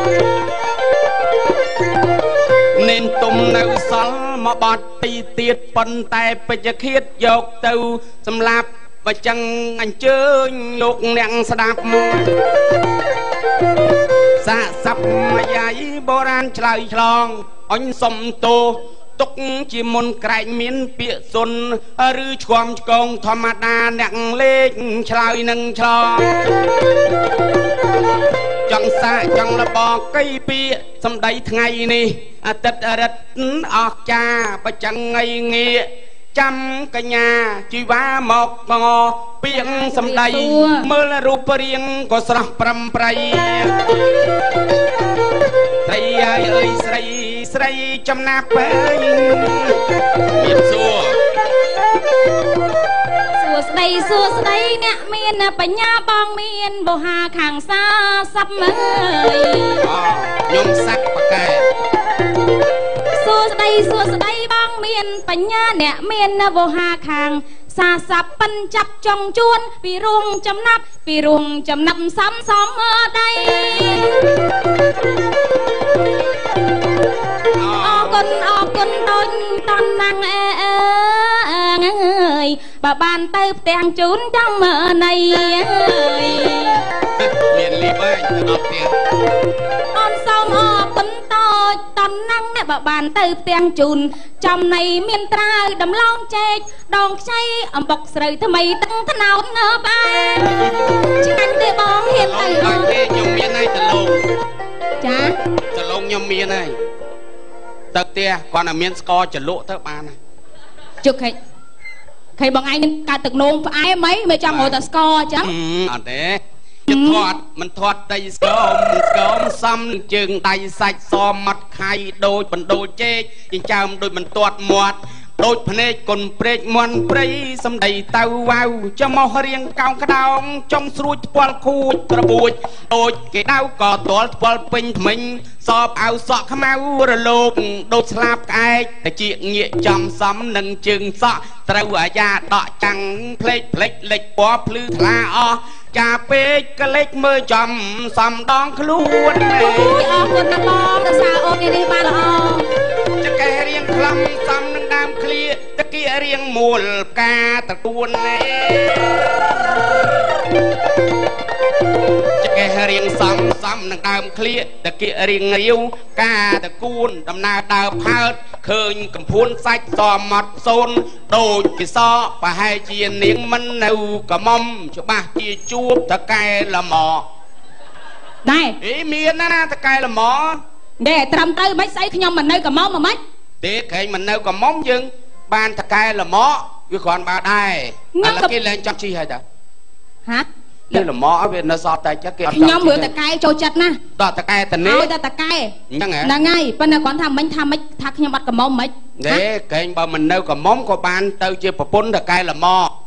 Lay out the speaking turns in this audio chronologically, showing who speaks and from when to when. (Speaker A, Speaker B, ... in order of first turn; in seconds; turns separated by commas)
Speaker A: 2.7-12.3, Speaker A: 14.4-26.7, Speaker A: 28.7-43.9, Speaker B: 39.5-40.9, Speaker A: 45.8-49.8, Speaker A: 50.3-51.2, Speaker B: 53.4-59.9, Speaker A: 59.8-61.7, Speaker B: 63.1-74.4, Speaker A: 77.5-78.2, Speaker B: 77.8-86.8, Speaker A: 87.2-88.9, Speaker B: 89.9-102.9, Speaker A: 102.1-104.3, Speaker B: 105.0-105.4, Speaker A: 105.7-106.7, Speaker A: 107.9-110.1, Speaker B: 111.0-111.3, Speaker B: 112.4-115.5, Speaker A: 114.5-114.8, Speaker A: 115.4-150.3, Speaker B: 116.9-117.3, Speaker B: 149.6-152.7, Speaker A: 153.2-159.6, Speaker A: 162.4-177.2, Speaker B: 178.4-178.8, Speaker A: 178.8-180.6, Speaker B: 181.0-183.2, Speaker A: 183.6-189.4, Speaker B: 188.1-188.5, Speaker B: 190.2-191.0, Speaker A: 190.9-193.1, Speaker B: 192.5-194.0, Speaker A: 194.2-195.1, Speaker B: 194.8-199.4, Speaker A: 195.9-196.3, Speaker A: 199.2-202.9